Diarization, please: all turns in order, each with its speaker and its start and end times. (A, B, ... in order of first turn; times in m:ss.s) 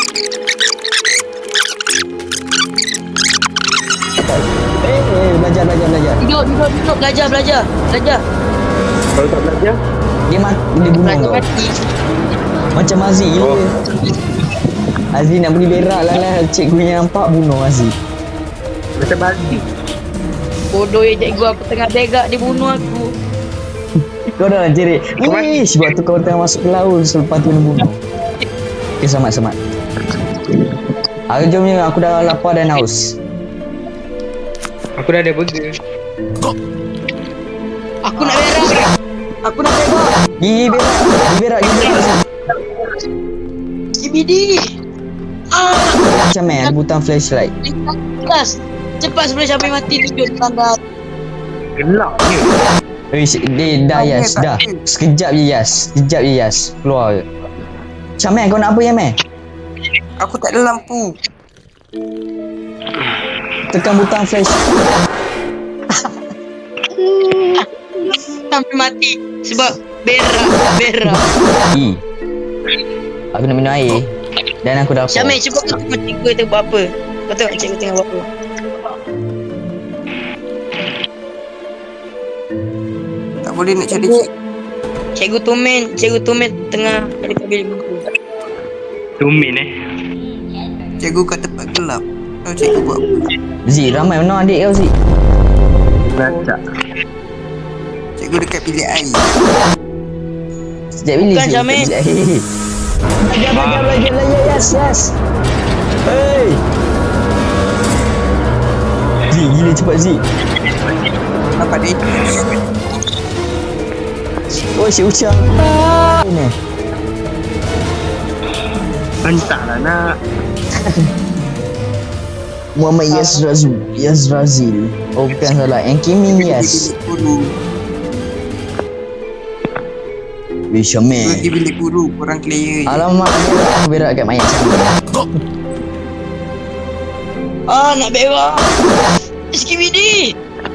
0:04.2-0:06.2 A
0:06.2-0:08.2 B
0:09.2-0:09.8 C
0:10.3-0:11.4 A
0:11.0-0:11.8 B
0:12.7-0:13.7 A
0:13.4-0:13.7 C
0:15.1-0:18.0 A
0:19.0-0:19.6 C
0:20.7-0:23.1 B
0:24.4-0:28.0 A
0:25.2-0:25.6 C
0:29.0-0:29.6 A
0:31.3-0:33.2 A
0:35.0-0:35.8 C
0:38.0-0:38.8 B
0:39.4-0:40.1 B
0:40.4-0:42.2 A
0:41.7-0:42.0 B
0:44.0-0:44.6 B
0:45.5-0:46.0 B
0:46.1-0:47.5 A
0:47.6-0:50.8 B
0:51.8-0:52.5 C
0:53.1-0:57.3 A
0:53.9-0:54.8 D
0:58.2-0:59.2 A
1:00.2-1:01.1 D
1:03.7-1:04.6 A
1:08.3-1:11.2 B
1:11.7-1:12.0 A
1:13.3-1:14.1 A
1:14.6-1:15.5 A
1:15.1-1:18.3 B
1:23.4-1:24.3 D
1:24.0-1:24.2 B
1:25.2-1:28.1 B
1:29.2-1:29.7 C
1:31.0-1:33.0 D
1:33.7-1:34.9 A
1:36.2-1:36.6 C
1:38.2-1:39.2 D
1:41.0-1:42.5 A
1:41.2-1:41.9 B
1:43.2-1:45.1 A
1:43.5-1:44.0 C
1:46.1-1:46.6 A
1:49.3-1:50.2 A
1:51.6-1:52.6 D
1:54.8-1:56.6 A
1:59.2-2:00.0 C
2:00.8-2:01.1 A
2:02.8-2:06.9 A
2:03.1-2:03.4 B
2:06.3-2:07.5 D
2:10.7-2:11.5 A
2:11.1-2:13.0 D
2:12.9-2:15.0 A
2:17.7-2:18.7 B
2:19.5-2:20.4 B